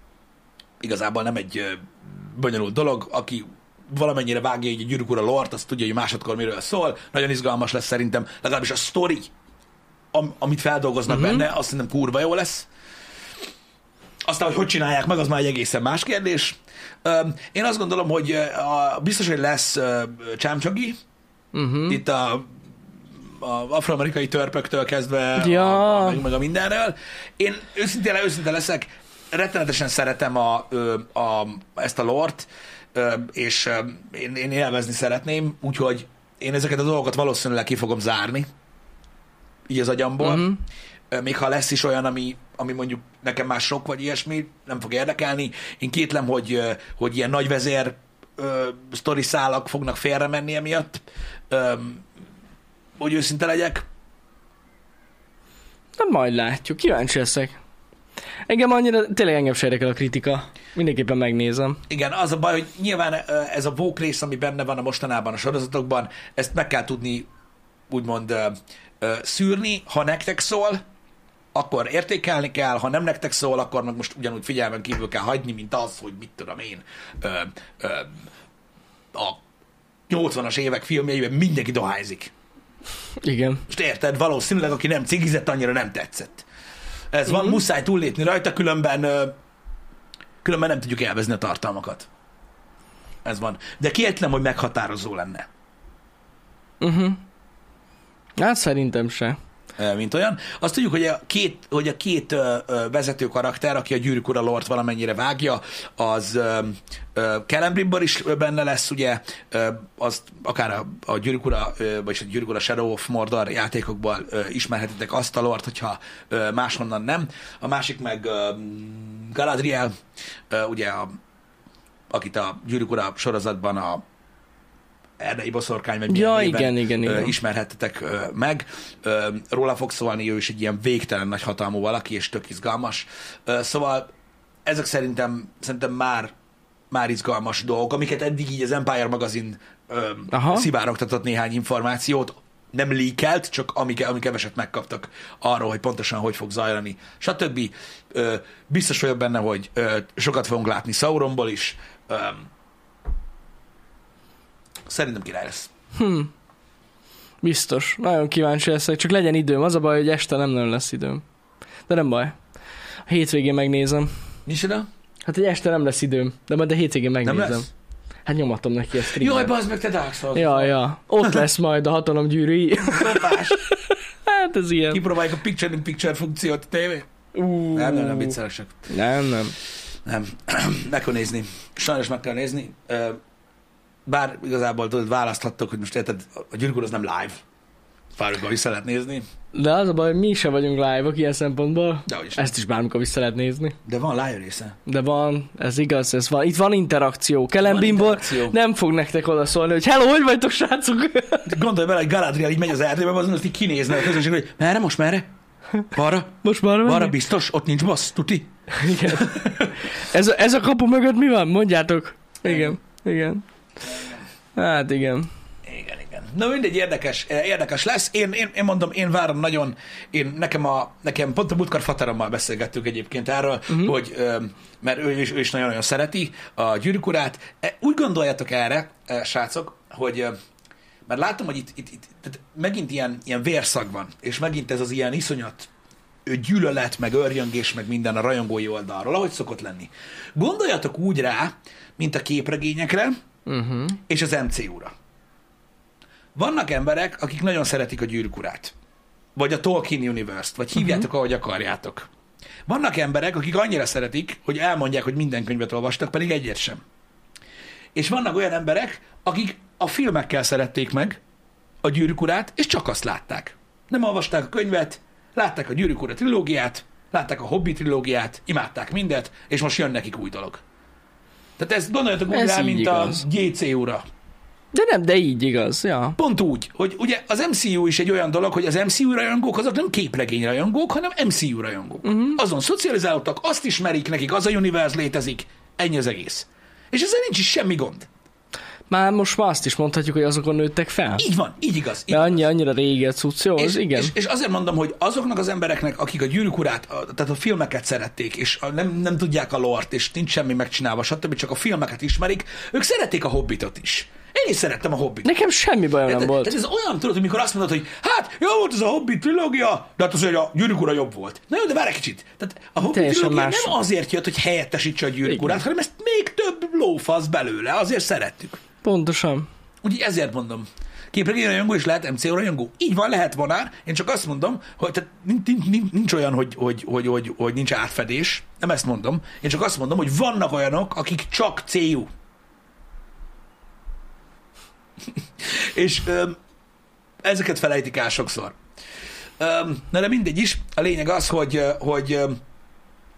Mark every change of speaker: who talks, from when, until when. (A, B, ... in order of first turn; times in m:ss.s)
0:00.8-0:09.3 A
0:10.1-0:12.7 A
0:11.1-0:11.4 B
0:14.2-0:21.0 A
0:21.5-0:22.0 B
0:21.9-0:22.6 A
0:23.2-0:38.5 A
0:25.4-0:26.2 B
0:39.7-0:40.6 A
0:40.2-0:40.6 B
0:41.1-0:52.0 A
0:53.0-0:53.8 A
0:56.0-0:57.6 B
0:58.5-1:01.8 B
1:01.9-1:07.3 A
1:07.9-1:10.8 A
1:11.5-1:18.2 A
1:19.1-1:19.4 A
1:20.1-1:22.3 A
1:23.2-1:23.6 B
1:23.7-1:26.4 A
1:27.1-1:29.4 A
1:27.3-1:27.6 B
1:30.4-1:32.1 A
1:33.2-1:35.5 A
1:36.8-1:37.2 B
1:38.4-1:39.4 B
1:39.8-1:59.9 A
2:00.5-2:01.2 A
2:02.1-2:04.0 A
2:05.2-2:14.1 A
2:06.1-2:07.3 B
2:14.6-2:16.3 A
2:16.9-2:32.5 A
2:20.3-2:20.7 B
2:34.9-2:35.7 A
2:35.9-2:36.3 B
2:37.4-2:41.2 B
2:41.9-2:42.4 B
2:43.0-2:44.1 B
2:44.4-2:44.9 A
2:45.2-2:47.7 B
2:47.2-2:47.6 A
2:48.2-2:49.5 B
2:49.1-2:50.8 A
2:50.3-2:55.0 B
2:52.9-2:53.6 A
2:54.9-2:57.1 A
2:57.3-2:58.4 B
2:57.7-2:58.9 A
2:58.9-2:59.5 B
3:00.0-3:03.2 A
3:04.0-3:07.4 A
3:08.2-3:09.2 A
3:09.5-3:13.8 B
3:12.0-3:12.5 A
3:13.8-3:14.8 A
3:14.8-3:21.6 B
3:17.6-3:18.6 A
3:21.4-3:25.3 A
3:25.8-3:29.7 A
3:26.4-3:27.1 B
3:28.7-3:33.4 B
3:32.4-3:32.8 A
3:33.8-3:34.2 A
3:34.5-3:35.3 B
3:35.6-3:50.3 A
3:51.1-3:55.7 A
3:56.2-4:03.2 A
4:03.4-4:04.0 B
4:04.1-4:04.9 A
4:06.3-4:08.7 A
4:09.4-4:12.1 A
4:10.8-4:11.0 B
4:12.6-4:16.8 A
4:17.9-4:21.2 A
4:21.8-4:30.6 A
4:31.6-4:34.0 A
4:32.3-4:33.2 B
4:34.7-4:36.2 B
4:36.2-4:48.1 A
4:42.0-4:42.4 B
4:48.9-4:51.2 B
4:51.2-4:52.4 A
4:52.1-4:54.1 B
4:53.6-5:05.3 A
5:05.2-5:06.6 B
5:06.1-5:18.6 A
5:12.9-5:13.8 B
5:15.2-5:15.6 B
5:18.8-5:19.5 B
5:19.8-5:32.1 A
5:35.4-5:36.4 A
5:37.2-5:38.6 A
5:39.4-5:42.4 A